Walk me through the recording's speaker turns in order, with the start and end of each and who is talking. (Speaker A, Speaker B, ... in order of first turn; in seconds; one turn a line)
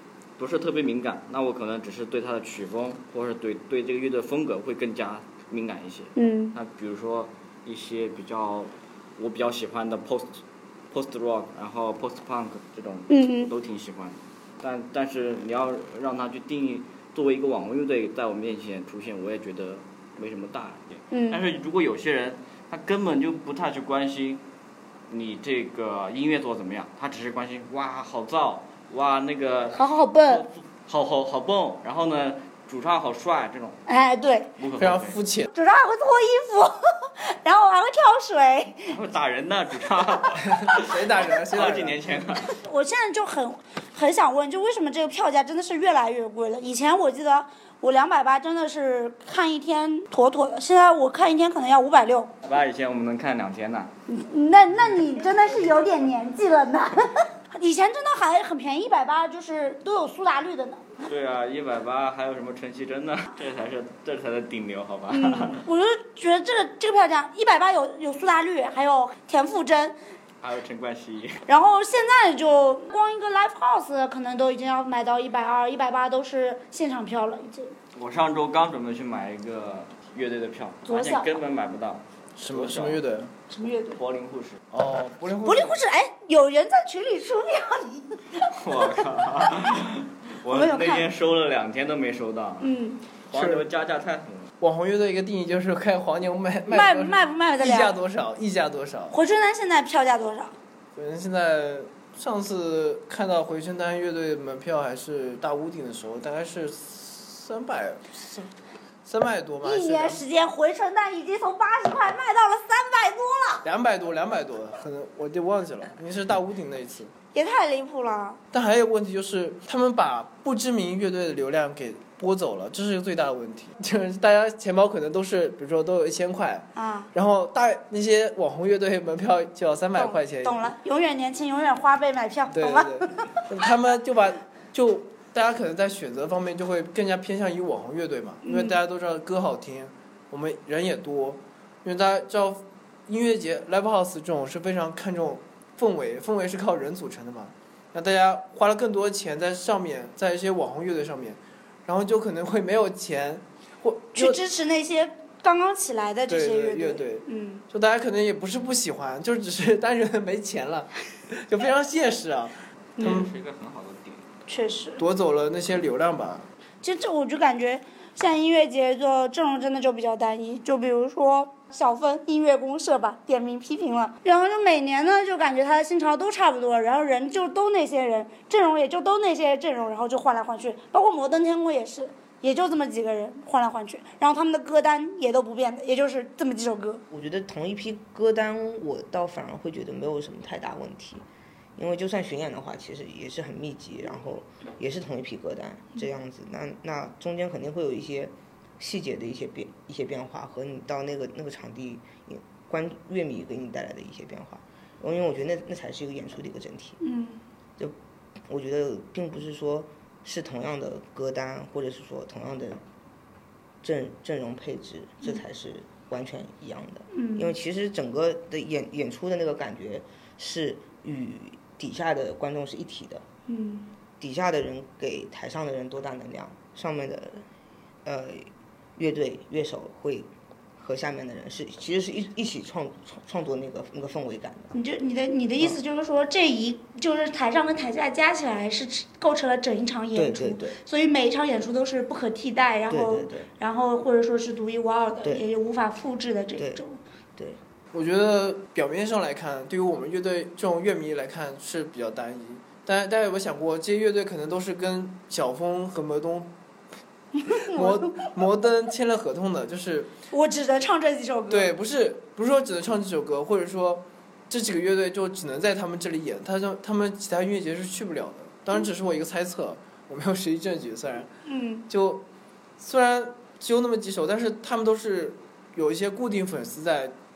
Speaker A: 0.4-24.4
Speaker B: 6.2-6.6
Speaker B: 13.1-13.5
Speaker B: 21.1-21.4
Speaker A: 25.1-33.8
Speaker B: 29.7-30.4
Speaker B: 33.9-34.5
Speaker A: 34.6-35.2
Speaker C: 34.8-35.5
Speaker B: 35.5-38.9
Speaker A: 38.9-42.6
Speaker C: 40.4-42.4
Speaker B: 42.5-52.3
Speaker A: 52.4-53.9
Speaker B: 54.1-60.9
Speaker A: 61.0-65.7
Speaker B: 65.1-70.0
Speaker A: 70.4-71.4
Speaker B: 71.5-77.8
Speaker A: 77.9-83.0
Speaker B: 80.9-81.4
Speaker C: 82.4-83.3
Speaker B: 83.5-84.0
Speaker A: 84.0-84.6
Speaker C: 84.7-85.8
Speaker B: 85.5-89.0
Speaker A: 88.5-92.7
Speaker B: 90.5-91.1
Speaker B: 92.6-93.0
Speaker A: 93.3-94.5
Speaker C: 93.3-93.7
Speaker C: 94.6-99.2
Speaker B: 96.7-98.0
Speaker B: 99.1-100.5
Speaker C: 101.0-108.5
Speaker C: 109.1-110.2
Speaker B: 109.6-113.7
Speaker C: 113.6-117.1
Speaker B: 117.3-118.4
Speaker C: 118.5-130.7
Speaker B: 126.8-127.1
Speaker B: 129.9-133.4
Speaker C: 132.5-154.4
Speaker B: 138.4-138.8
Speaker B: 154.2-157.6
Speaker C: 156.3-163.3
Speaker B: 163.0-163.2
Speaker A: 163.0-164.3
Speaker B: 164.5-165.0
Speaker C: 165.0-166.5
Speaker B: 166.8-187.0
Speaker D: 187.1-191.2
Speaker D: 191.8-207.0
Speaker B: 207.0-207.4
Speaker D: 208.5-212.8
Speaker D: 213.8-223.2
Speaker B: 217.1-217.6
Speaker B: 223.5-223.9
Speaker D: 224.2-227.5
Speaker D: 228.1-234.7
Speaker B: 234.7-247.0
Speaker D: 240.1-240.8
Speaker D: 242.9-243.5
Speaker D: 246.6-246.8
Speaker C: 247.9-256.5
Speaker B: 257.4-258.3
Speaker C: 257.5-260.1
Speaker B: 260.3-261.7
Speaker C: 261.5-271.3
Speaker B: 271.4-271.9
Speaker C: 271.9-272.2
Speaker C: 272.8-277.1